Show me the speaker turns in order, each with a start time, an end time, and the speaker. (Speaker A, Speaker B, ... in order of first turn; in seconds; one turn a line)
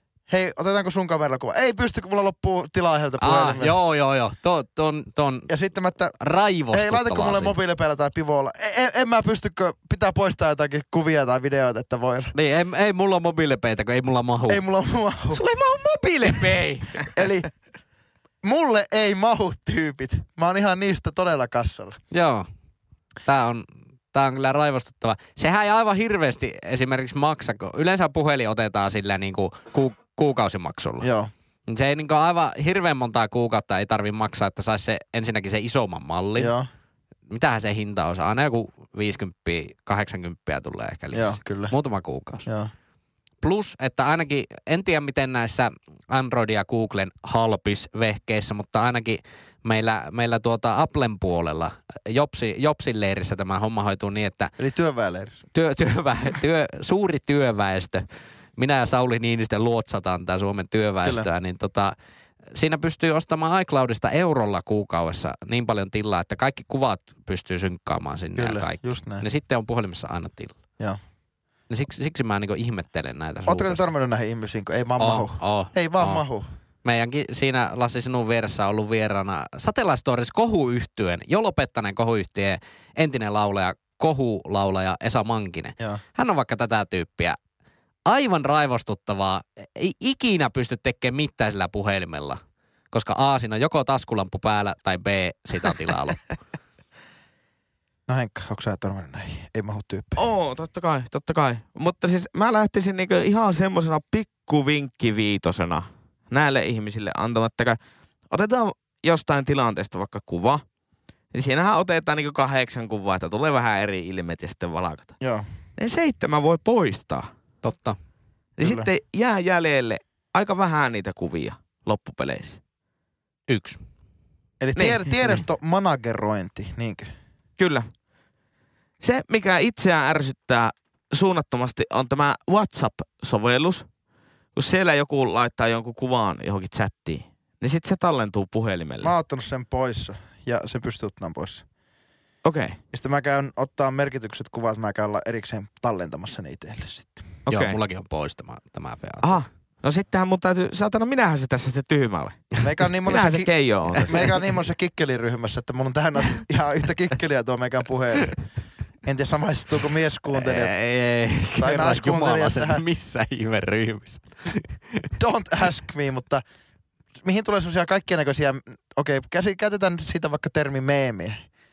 Speaker A: 0.3-3.8
Speaker B: 3.2-5.5
Speaker A: 5.5-6.2
Speaker B: 6.2-7.5
Speaker A: 6.7-12.3
Speaker B: 12.3-14.6
Speaker A: 14.5-15.4
Speaker B: 15.3-17.1
Speaker A: 17.0-17.5
Speaker A: 18.4-22.0
Speaker B: 22.1-22.5
Speaker B: 23.2-31.1
Speaker A: 31.0-31.3
Speaker B: 31.7-36.5
Speaker A: 36.4-36.7
Speaker B: 37.3-42.5
Speaker A: 41.1-41.7
Speaker A: 42.4-42.7
Speaker B: 43.4-54.5
Speaker A: 54.6-55.4
Speaker B: 55.5-58.0
Speaker B: 58.6-61.9
Speaker B: 62.5-70.6
Speaker A: 68.4-69.2
Speaker B: 71.7-73.8
Speaker A: 73.5-76.5
Speaker B: 75.0-76.2
Speaker B: 76.8-87.4
Speaker B: 88.1-92.4
Speaker B: 92.9-96.2
Speaker A: 98.1-100.2
Speaker C: 100.2-107.8
Speaker C: 108.3-110.6
Speaker C: 111.3-115.1
Speaker A: 115.2-115.5
Speaker C: 115.8-117.3
Speaker B: 117.6-118.0
Speaker C: 118.6-122.6
Speaker A: 118.6-118.9
Speaker B: 123.5-123.8
Speaker A: 124.6-127.1
Speaker C: 124.8-125.0
Speaker C: 127.6-127.9
Speaker C: 129.0-133.9
Speaker C: 134.5-139.1
Speaker A: 139.0-141.6
Speaker C: 142.4-142.8
Speaker A: 142.9-147.3
Speaker C: 147.4-147.8
Speaker B: 147.5-149.4
Speaker C: 149.2-152.5
Speaker A: 152.6-153.5
Speaker C: 153.1-154.3
Speaker A: 154.0-158.4
Speaker A: 159.0-160.7
Speaker B: 160.3-165.1
Speaker A: 161.6-162.8
Speaker A: 165.2-166.4
Speaker A: 167.2-171.4